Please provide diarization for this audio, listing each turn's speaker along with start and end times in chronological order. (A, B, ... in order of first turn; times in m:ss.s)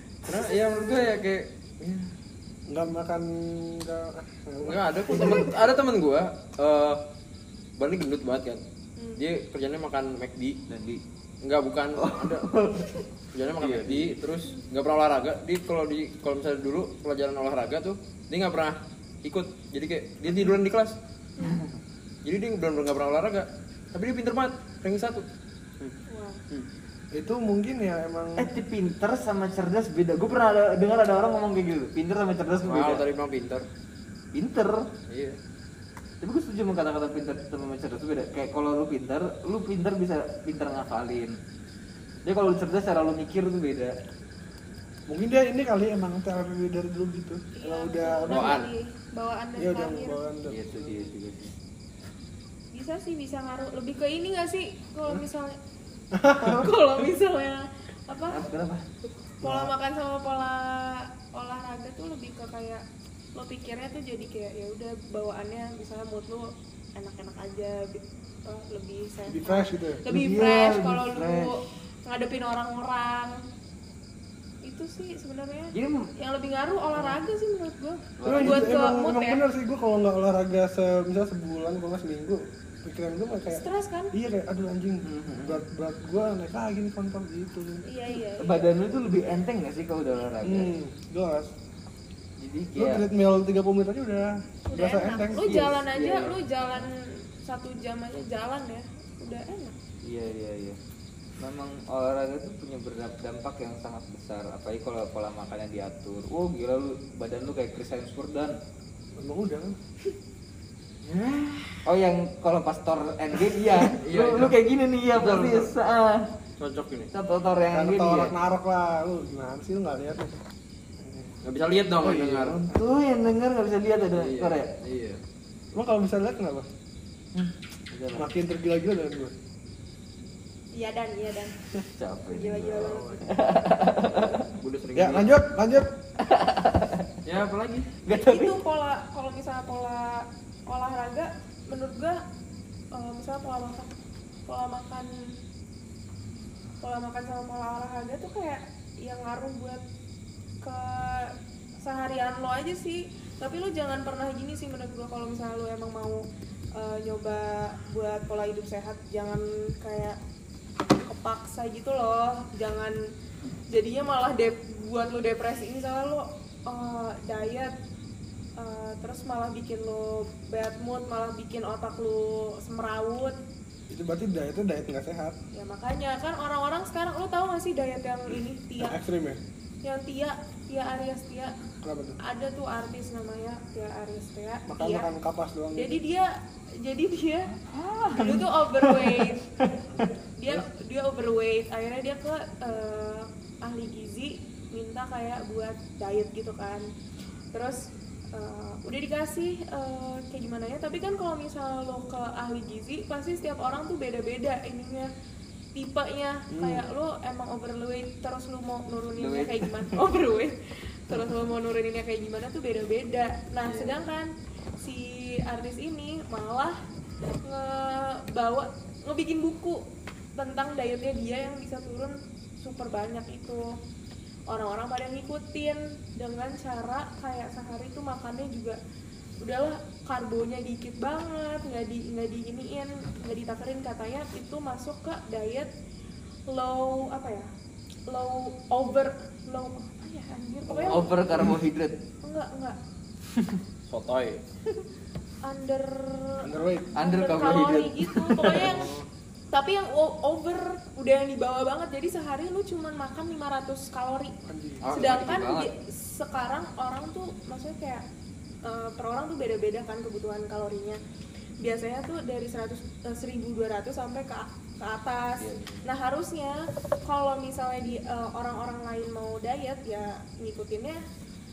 0:00.2-0:02.1 A
0:02.7-0:05.5 B
0:04.6-0:07.0 A
0:07.8-0:08.6 A
0:09.0-0:09.2 C
0:09.2-0:10.6 A
0:10.7-0:11.0 D
0:11.4-0:12.5 A
0:12.0-0:13.0 D
0:13.3-0:20.9 A
0:13.6-0:14.1 D
0:21.4-0:21.8 D
0:22.2-0:25.2 A
0:26.1-0:26.4 C
0:27.1-0:28.5 B
0:28.4-0:33.0 D
0:32.6-0:33.6 A
0:34.3-0:34.9 D
0:35.1-0:35.4 A
0:36.2-0:41.4 D
0:42.2-0:44.0 D
0:45.1-0:48.6 B
0:47.5-0:50.2 C
0:48.3-0:48.7 A
0:49.6-0:51.1 B
0:50.5-0:51.6 D
0:52.7-0:55.6 C
0:56.2-0:56.7 B
0:56.4-0:58.4 C
0:58.3-0:58.9 D
0:59.4-1:02.8 C
0:59.4-0:59.7 B
1:03.3-1:13.4 C
1:09.3-1:10.0 B
1:10.0-1:11.6 D
1:14.6-1:19.4 C
1:15.7-1:16.1 D
1:18.2-1:18.8 D
1:18.2-1:23.6 B
1:23.5-1:24.1 C
1:24.1-1:27.8 B
1:25.0-1:25.6 D
1:27.8-1:28.7 C
1:28.4-1:30.7 D
1:30.4-1:31.5 B
1:32.4-1:33.1 D
1:32.8-1:35.6 B
1:34.7-1:39.8 C
1:35.4-1:36.8 D
1:40.0-1:40.8 D
1:41.4-1:48.6 D
1:49.2-1:49.8 B
1:51.0-1:51.8 A
1:51.8-1:56.3 D
1:53.7-1:54.6 A
1:55.1-1:55.7 A
1:56.6-1:57.1 A
1:57.1-1:58.3 D
1:57.7-2:00.4 B
2:01.0-2:01.3 B
2:01.4-2:02.7 A
2:02.0-2:02.9 B
2:02.1-2:04.7 D
2:04.1-2:05.2 A
2:05.7-2:06.7 B
2:07.3-2:08.3 D
2:08.1-2:09.3 B
2:10.7-2:11.6 C
2:11.8-2:14.5 D
2:12.3-2:13.3 C
2:12.8-2:13.2 A
2:14.6-2:15.4 A
2:14.9-2:15.9 B
2:16.2-2:17.1 D
2:17.2-2:17.9 A
2:18.0-2:18.6 D
2:18.1-2:22.2 C
2:22.9-2:23.9 C
2:24.4-2:25.1 C
2:26.8-2:29.8 C
2:30.6-2:36.2 C
2:36.8-2:40.2 C
2:41.0-2:43.0 C
2:43.7-2:47.7 C
2:48.6-2:53.4 C
2:53.9-2:55.4 B
2:55.5-2:59.0 C
2:58.8-2:59.4 B
2:59.8-3:01.5 C
3:01.8-3:02.2 B
3:02.2-3:05.0 C
3:04.7-3:05.9 B
3:05.7-3:07.5 C
3:07.5-3:10.0 D
3:08.1-3:09.4 C
3:10.4-3:16.8 C
3:17.5-3:25.1 C
3:25.7-3:36.8 C
3:26.5-3:26.8 B
3:29.2-3:30.0 D
3:33.6-3:33.9 D
3:37.4-3:39.8 C
3:40.3-3:43.7 C
3:44.5-3:48.8 C
3:49.4-3:55.7 C
3:56.5-3:57.5 C
3:58.1-4:01.2 C
4:00.7-4:02.0 D
4:00.8-4:01.5 B
4:02.2-4:02.8 C
4:03.9-4:04.4 A
4:05.4-4:08.9 C
4:06.4-4:07.7 B
4:06.9-4:08.8 D
4:08.6-4:09.0 B
4:09.5-4:14.3 C
4:14.4-4:14.9 B
4:14.8-4:15.7 D
4:14.9-4:18.0 C
4:18.6-4:21.0 C
4:21.6-4:31.0 C
4:25.4-4:25.8 D